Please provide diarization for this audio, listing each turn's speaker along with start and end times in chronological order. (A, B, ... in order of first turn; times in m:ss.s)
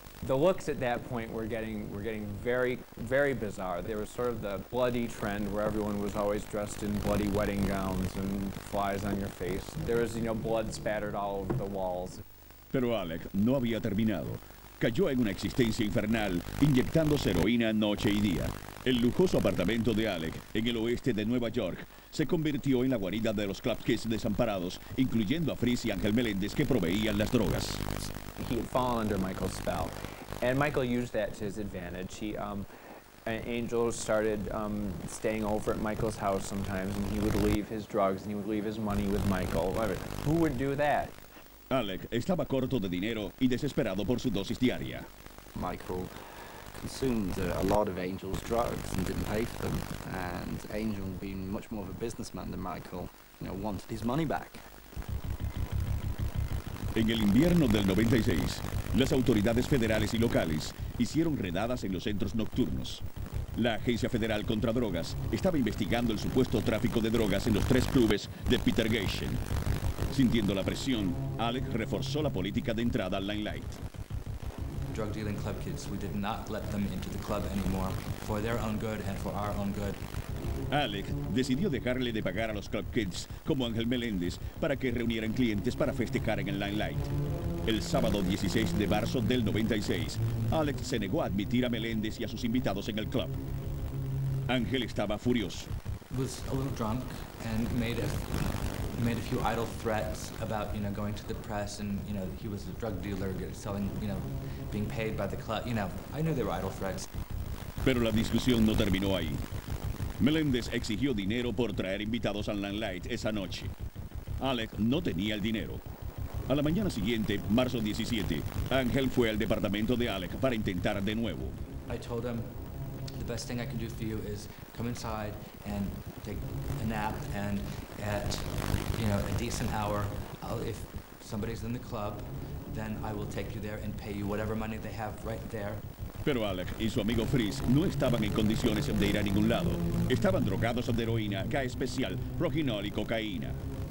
0:00.2-0:12.2 A
0:12.7-0:27.9 B
0:28.4-0:32.7 A
0:33.2-0:41.1 A
0:41.7-0:45.1 B
0:45.5-0:46.1 C
0:46.7-0:54.6 C
0:56.9-1:09.4 B
1:10.1-1:13.8 B
1:14.9-1:20.0 D
1:20.7-1:27.1 B
1:27.6-1:33.4 B
1:34.5-1:35.7 B
1:36.1-1:47.1 D
1:47.8-1:49.4 B
1:50.2-1:53.7 B
1:54.4-1:55.8 B
1:56.5-2:01.6 B
2:01.9-2:02.6 D
2:03.1-2:15.8 D
2:16.2-2:23.6 B